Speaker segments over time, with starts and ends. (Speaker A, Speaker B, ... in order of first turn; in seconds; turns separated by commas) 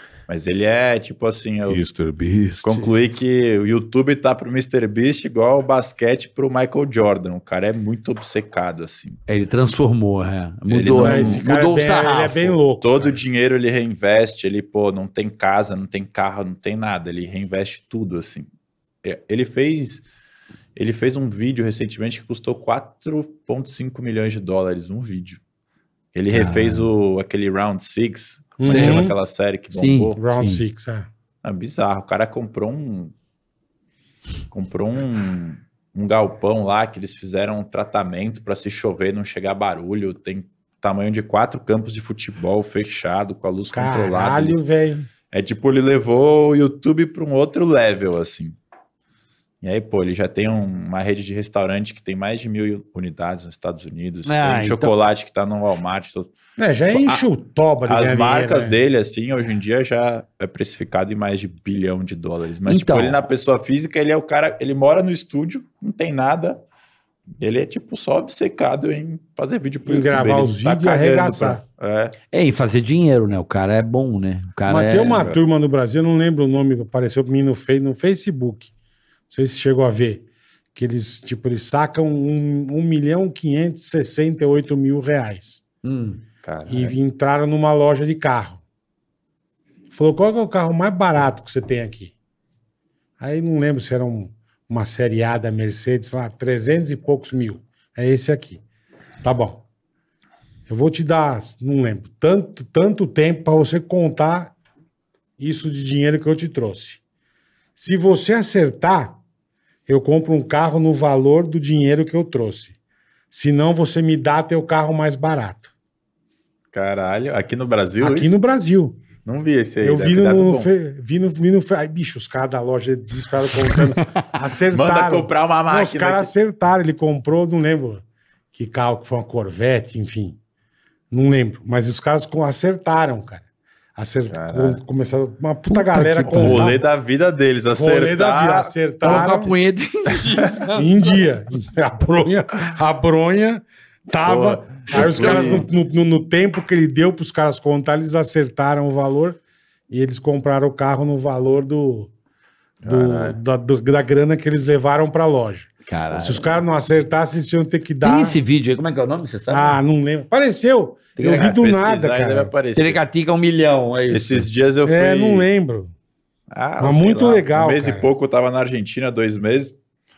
Speaker A: 0.3-1.8, Speaker B: 1.7-2.9, Speaker A: 2.6-9.2, Speaker B: 9.3-12.6, Speaker A: 10.7-11.5, Speaker C: 10.9-13.2, Speaker A: 12.8-18.5, Speaker A: 19.0-20.1, Speaker A: 20.7-25.4, Speaker A: 26.1-30.2, Speaker B: 26.3-26.9, Speaker C: 28.6-29.1, Speaker B: 28.6-29.1, Speaker B: 29.7-30.6, Speaker C: 30.2-31.1, Speaker A: 31.4-33.1, Speaker A: 34.5-44.6, Speaker C: 43.7-45.1, Speaker A: 45.3-48.6, Speaker A: 49.6-56.3, Speaker B: 54.3-54.9, Speaker C: 56.6-58.8, Speaker A: 56.9-57.2, Speaker A: 57.9-66.6, Speaker B: 62.6-63.2, Speaker A: 67.4-72.2, Speaker C: 69.8-71.6, Speaker B: 72.3-75.3, Speaker C: 74.7-78.7, Speaker C: 79.3-85.6, Speaker B: 85.8-86.2, Speaker A: 86.4-87.0, Speaker C: 86.7-88.6, Speaker C: 89.9-92.1, Speaker C: 93.2-98.6, Speaker C: 99.2-99.6, Speaker C: 100.7-104.5, Speaker C: 105.4-107.0, Speaker C: 107.8-109.2, Speaker C: 109.9-112.7, Speaker C: 113.3-115.7, Speaker A: 116.7-118.4, Speaker C: 118.0-119.0, Speaker A: 119.2-120.7, Speaker C: 119.8-130.4, Speaker A: 124.7-126.3, Speaker C: 131.1-133.4, Speaker C: 133.9-136.8, Speaker A: 134.3-134.8, Speaker B: 135.7-136.7, Speaker A: 136.3-138.7, Speaker C: 137.7-139.5, Speaker B: 139.0-141.1, Speaker C: 140.7-152.1, Speaker A: 144.2-145.7, Speaker B: 144.9-145.6, Speaker A: 152.8-153.4, Speaker C: 152.8-158.4, Speaker B: 155.9-156.5, Speaker B: 158.0-159.8, Speaker C: 159.5-162.5, Speaker B: 161.2-161.5, Speaker A: 161.3-163.0, Speaker B: 162.8-164.5, Speaker A: 164.1-165.5, Speaker C: 164.8-165.9, Speaker A: 166.5-169.8, Speaker C: 166.8-168.1